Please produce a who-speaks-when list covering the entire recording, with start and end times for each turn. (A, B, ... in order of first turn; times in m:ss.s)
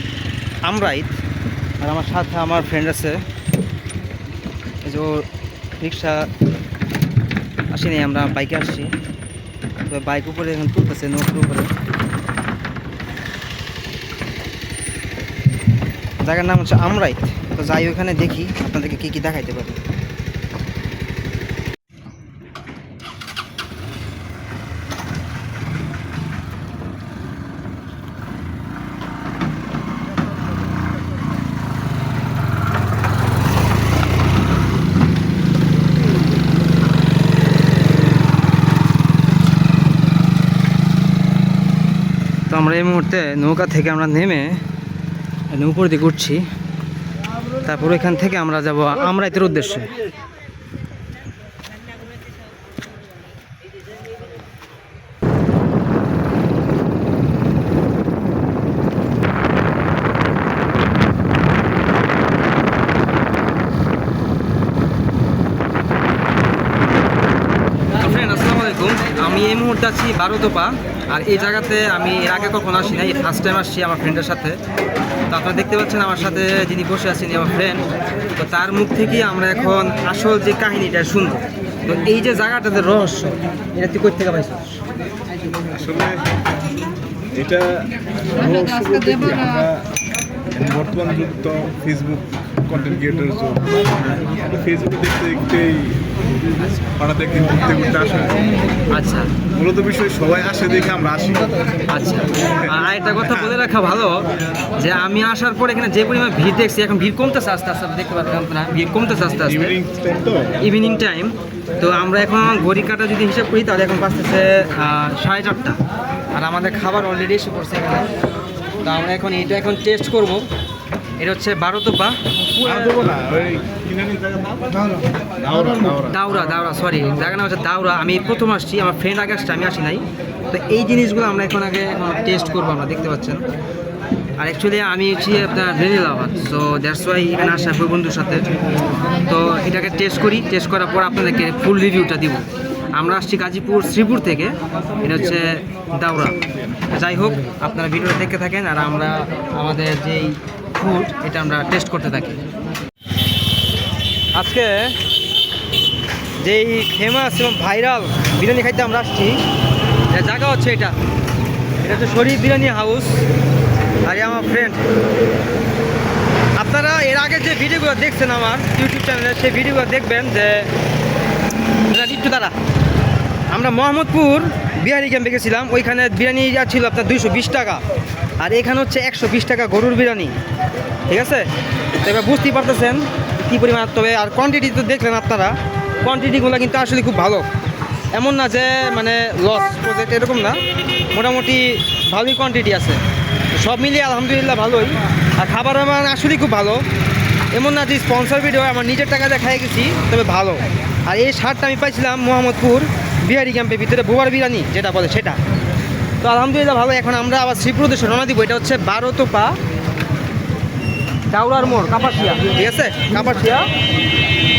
0:00.6-0:01.2 A
0:01.8-0:03.2 A
0:04.8-0:05.3 A
0:05.8-0:06.3 A
0:07.7-0:08.9 A
0:09.9-0:11.7 A
0:16.2-0:19.8 A
0:42.5-0:44.6 A
0:45.5-0:46.5 A
0:47.6-0:50.0 A
1:08.0-1:14.6 A
1:15.3-1:24.8 A
1:25.7-1:26.2 B
1:27.3-1:29.9 B
1:30.5-1:36.0 B
1:36.9-1:38.5 B
1:38.9-1:39.3 A
1:39.5-1:41.5 B
1:41.9-1:49.8 A
1:49.6-1:50.6 B
1:50.6-1:55.8 A
1:56.3-1:58.1 A
1:58.8-2:00.5 A
2:01.2-2:03.1 A
2:02.6-2:04.6 B
2:05.4-2:06.1 B
2:05.9-2:13.4 A
2:14.4-2:18.5 A
2:19.2-2:32.4 A
2:34.3-2:35.0 A
2:36.4-2:39.4 A
2:40.1-2:41.0 A
2:41.8-2:43.2 A
2:44.0-2:44.8 A
2:46.6-2:50.7 A
2:51.9-2:52.6 A
2:53.5-2:57.8 A
2:58.4-3:00.4 A
3:01.1-3:01.5 A
3:02.0-3:07.5 A
3:08.1-3:13.0 A
3:13.5-3:16.8 A
3:17.5-3:25.4 A
3:26.2-3:29.6 A
3:31.3-3:33.7 A